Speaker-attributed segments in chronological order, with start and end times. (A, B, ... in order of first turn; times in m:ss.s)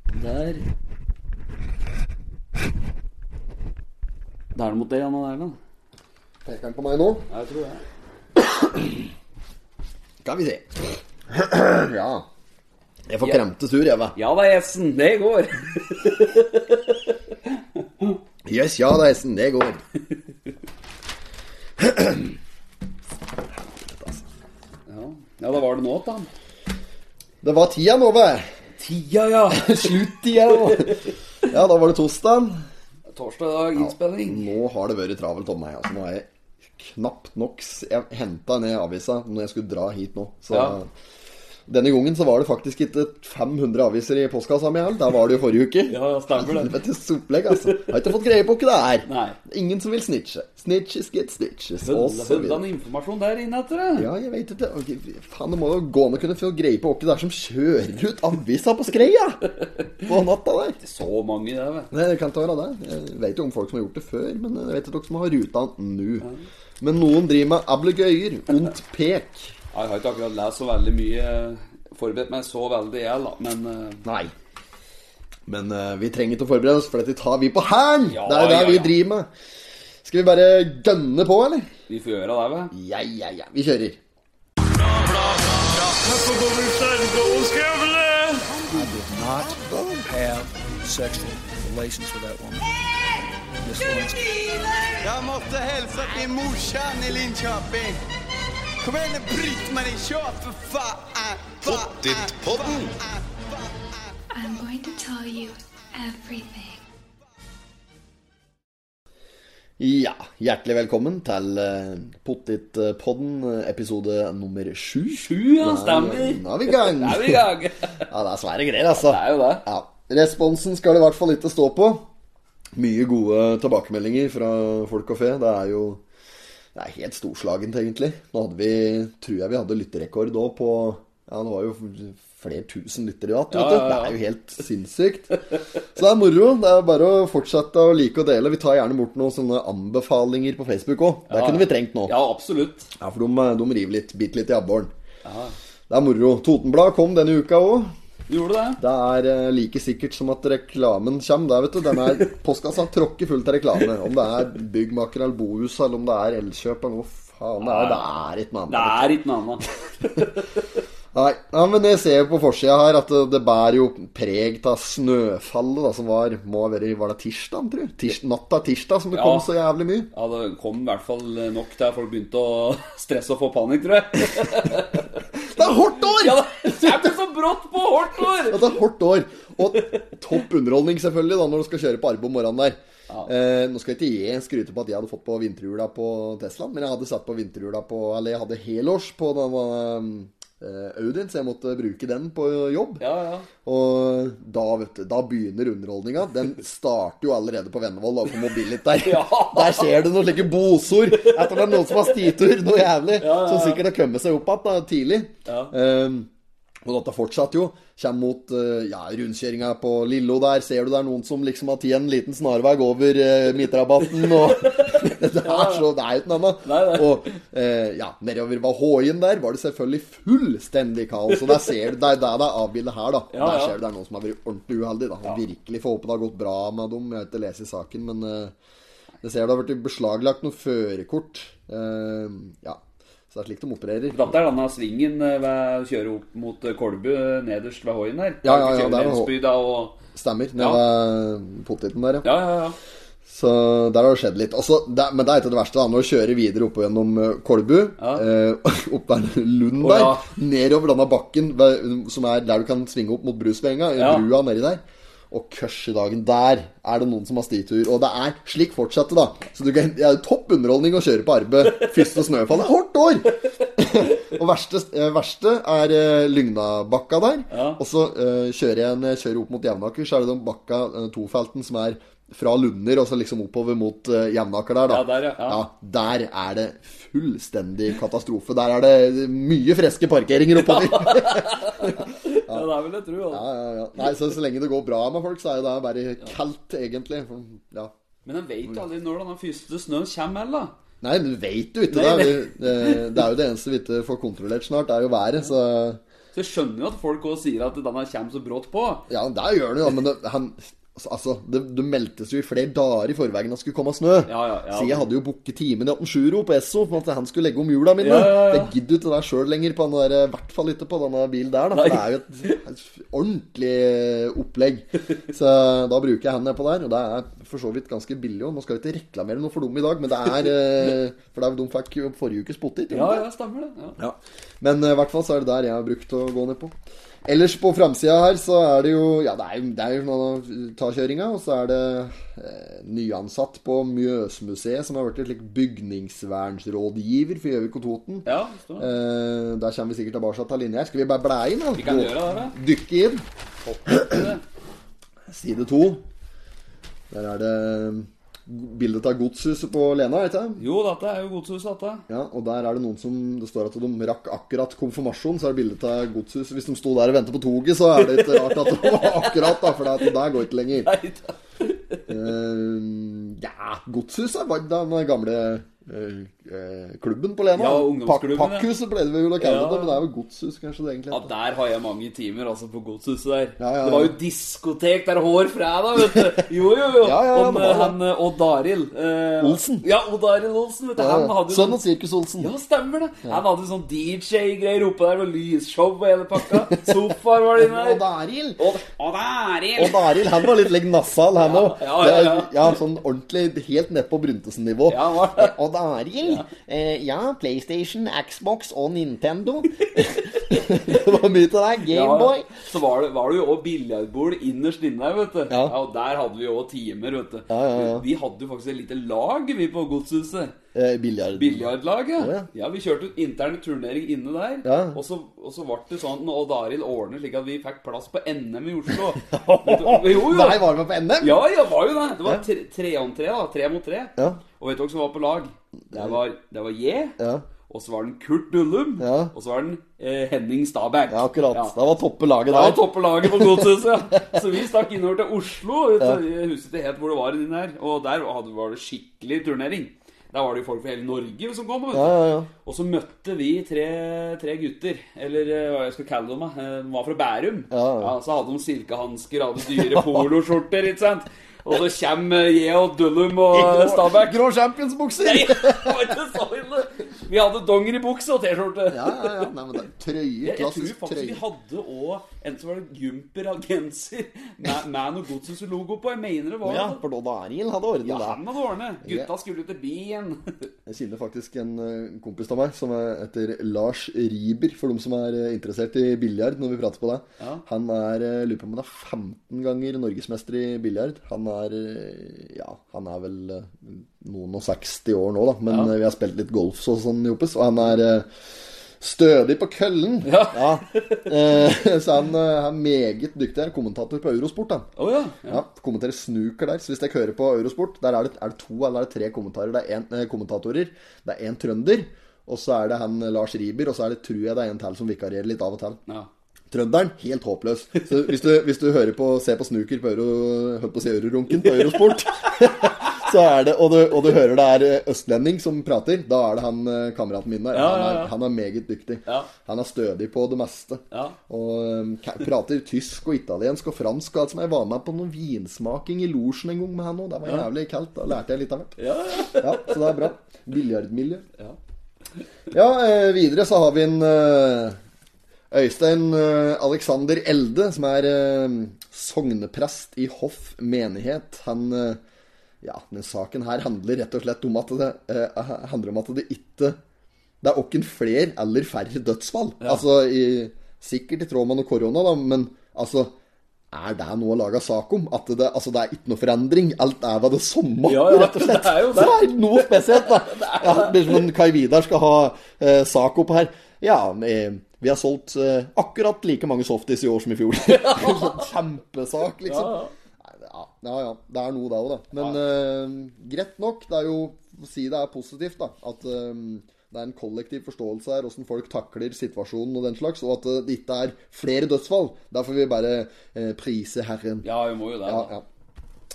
0:00.1-0:00.7 A
0:04.6-0:05.6 A
0:06.4-0:07.3 B
0:07.3-0:07.8 A
0:08.4-0:09.1 B
0:10.2-0:12.3 B
0:13.1-0:14.2 B
0:14.2-0:18.2 A
0:18.4-0:19.8 B
0:21.8-0:22.4 B
0:23.5-0:24.2 B
0:24.9-0:26.3 A
0:27.4-0:28.5 B
0:28.8-0:31.1 A
0:29.5-0:32.6 B
0:33.1-0:34.5 A
0:33.8-0:40.9 B
0:40.5-0:40.8 A
0:41.7-0:52.6 B
0:45.9-0:46.8 A
0:47.6-0:47.9 A
0:49.1-0:49.4 A
0:51.8-0:54.1 A
0:54.0-0:59.4 B
1:00.0-1:00.8 B
1:00.8-1:01.9 A
1:01.9-1:06.3 B
1:06.8-1:09.5 B
1:09.7-1:14.0 A
1:14.0-1:14.3 B
1:15.5-1:19.3 B
1:18.1-1:19.0 A
1:20.0-1:21.7 B
1:21.9-1:22.7 A
1:22.7-1:24.0 B
1:24.6-1:29.5 C
1:28.7-1:30.1 B
1:30.0-1:32.7 C
1:33.6-1:34.7 C
1:35.0-1:38.0 D
1:38.8-1:44.0 D
1:44.3-1:46.8 E
1:49.8-1:57.5 B
1:55.1-1:58.0 A
1:58.1-2:02.1 B
1:59.0-1:59.7 A
2:02.8-2:06.0 B
2:06.8-2:22.1 B
2:13.5-2:14.2 A
2:21.3-2:22.9 A
2:23.0-2:24.9 B
2:25.2-2:25.6 A
2:25.9-2:27.9 B
2:28.3-2:28.8 A
2:28.8-2:39.2 B
2:37.6-2:38.1 A
2:38.7-2:40.6 A
2:40.0-2:40.3 B
2:41.1-2:50.1 B
2:49.1-2:49.5 A
2:50.1-2:55.2 A
2:55.4-2:57.2 B
2:56.1-2:58.7 A
2:58.4-3:13.0 B
3:13.0-3:13.5 A
3:13.6-3:26.3 B
3:19.0-3:20.0 A
3:21.2-3:22.1 A
3:23.2-3:23.8 A
3:25.5-3:25.7 A
3:26.8-3:48.6 B
3:34.1-3:35.9 A
3:36.6-3:37.4 A
3:41.4-3:41.7 A
3:43.3-3:43.8 A
3:49.2-3:54.3 B
3:54.1-4:00.0 A
3:58.4-3:59.3 B
4:00.1-4:02.3 B
4:02.2-4:02.8 A
4:03.3-4:42.7 B
4:08.0-4:08.2 A
4:09.8-4:10.3 A
4:14.0-4:14.3 A
4:27.5-4:27.8 A
4:34.9-4:35.6 A
4:40.6-4:43.5 A
4:43.3-4:47.9 B
4:48.2-4:50.7 A
4:51.0-4:56.0 B
4:51.9-4:53.2 A
4:56.3-4:59.1 A
4:59.1-5:23.2 B
5:04.3-5:05.1 A
5:08.0-5:08.7 A
5:11.7-5:12.6 A
5:22.9-5:24.0 A
5:24.0-5:43.2 B
5:38.2-5:38.9 A
5:41.8-5:42.6 A
5:43.6-5:44.4 A
5:43.9-5:44.2 B
5:45.3-5:46.0 B
5:47.1-5:50.6 B
5:50.6-5:52.0 A
5:52.1-6:00.9 B
5:58.0-6:00.1 A
6:00.8-6:02.1 A
6:02.1-6:11.3 B
6:07.5-6:08.7 A
6:09.4-6:10.0 A
6:11.1-6:21.8 A
6:13.6-6:14.2 B
6:17.0-6:18.0 B
6:19.4-6:19.8 B
6:21.0-6:22.5 B
6:22.4-6:28.0 A
6:26.8-6:28.6 B
6:28.6-6:30.5 A
6:29.8-6:42.5 B
6:31.4-6:32.8 A
6:34.9-6:35.6 A
6:39.9-6:41.1 A
6:41.9-6:50.5 A
6:45.5-6:45.8 B
6:47.5-6:48.0 B
6:50.7-6:52.5 B
6:51.4-7:00.6 A
6:54.6-6:55.0 B
6:58.9-7:01.4 B
7:01.2-7:07.2 A
7:04.2-7:04.4 B
7:05.9-7:06.2 B
7:07.2-7:07.4 B
7:07.7-7:11.8 A
7:09.0-7:09.3 B
7:11.1-7:13.7 B
7:12.5-7:34.4 A
7:21.9-7:22.5 B
7:27.7-7:28.1 B
7:29.7-7:30.3 B
7:33.5-7:36.2 B
7:35.2-7:39.5 A
7:38.9-7:41.4 B
7:40.4-7:47.0 A
7:46.6-7:48.4 B
7:48.0-7:50.7 A
7:49.0-7:49.3 B
7:50.9-8:08.3 B
7:57.4-7:57.6 A
8:09.0-8:14.9 B
8:10.2-8:11.3 A
8:15.0-8:15.6 A
8:15.5-8:26.0 B
8:26.7-8:51.5 B
8:37.7-8:38.3 A
8:41.1-8:41.4 A
8:49.0-8:50.2 A
8:52.7-8:55.0 B
8:55.7-9:02.2 B
9:02.8-9:07.0 B
9:07.6-9:13.3 B
9:13.9-9:44.7 B
9:18.1-9:21.4 A
9:27.9-9:28.7 A
9:29.7-9:30.1 A
9:44.6-9:45.5 A
9:45.2-9:45.6 B